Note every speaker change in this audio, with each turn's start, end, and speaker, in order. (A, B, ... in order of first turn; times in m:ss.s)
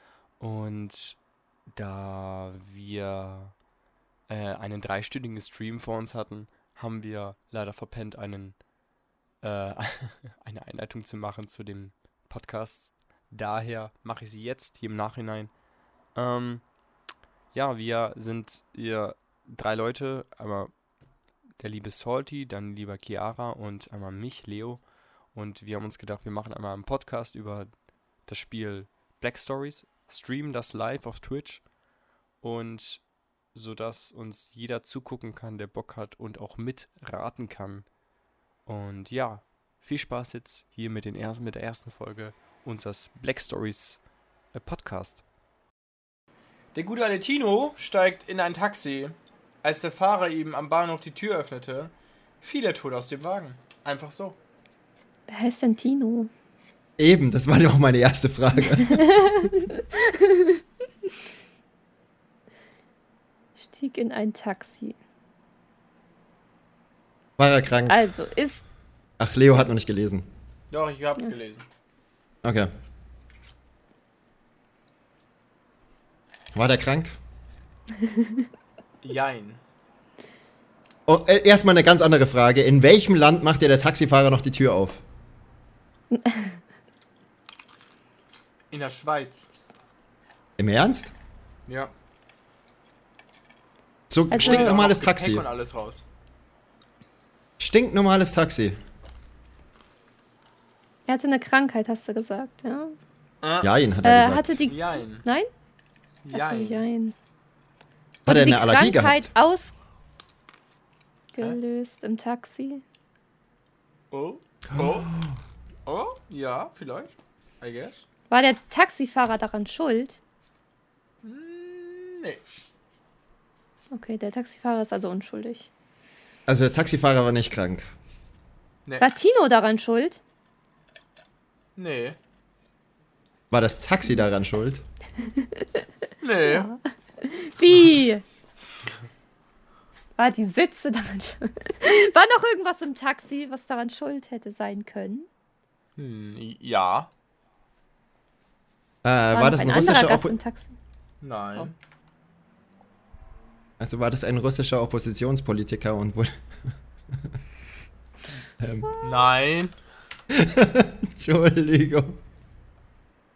0:00.4-0:01.2 A
0:01.7-0:03.6 A
0:04.3-0:08.7 A
0:09.4-0:15.5 A
0:14.2-0:14.7 B
0:16.1-0:16.7 A
0:17.5-0:20.7 A
0:21.6-0:31.7 A
0:32.4-0:37.9 A
0:38.6-0:45.2 A
0:46.7-0:51.9 B
0:52.4-0:54.4 B
0:55.3-0:56.3 C
0:57.0-0:59.1 D
0:58.8-1:00.6 C
1:03.6-1:05.0 C
1:07.4-1:08.1 D
1:07.9-1:08.7 C
1:09.2-1:10.2 D
1:10.7-1:11.6 B
1:12.4-1:12.7 D
1:16.5-1:17.2 D
1:18.0-1:18.4 C
1:19.0-1:19.6 B
1:21.1-1:25.0 D
1:26.1-1:26.5 C
1:28.7-1:29.5 B
1:30.6-1:31.1 D
1:31.7-1:31.9 B
1:34.1-1:35.4 D
1:34.3-1:34.7 C
1:34.3-1:36.0 B
1:37.6-1:38.8 D
1:41.1-1:43.0 C
1:43.4-1:43.7 B
1:43.6-1:44.6 D
1:44.0-1:45.5 C
1:44.7-1:45.2 B
1:46.2-1:46.9 B
1:46.3-1:47.1 C
1:48.3-1:49.3 D
1:48.3-1:49.7 C
1:51.3-1:52.8 C
1:54.1-1:55.2 B
1:54.7-1:55.3 D
1:55.9-1:58.0 B
1:58.3-2:00.2 C
2:01.2-2:02.4 B
2:03.9-2:05.7 C
2:06.5-2:07.9 D
2:09.0-2:10.2 C
2:11.8-2:12.2 B
2:13.5-2:14.8 D
2:15.3-2:15.8 C
2:16.2-2:16.7 B
2:16.4-2:18.2 C
2:20.2-2:25.3 C
2:26.0-2:27.1 B
2:29.0-2:30.4 D
2:29.3-2:30.7 C
2:31.2-2:31.7 B
2:33.8-2:36.3 D
2:38.6-2:38.9 D
2:39.0-2:39.7 B
2:40.3-2:42.2 D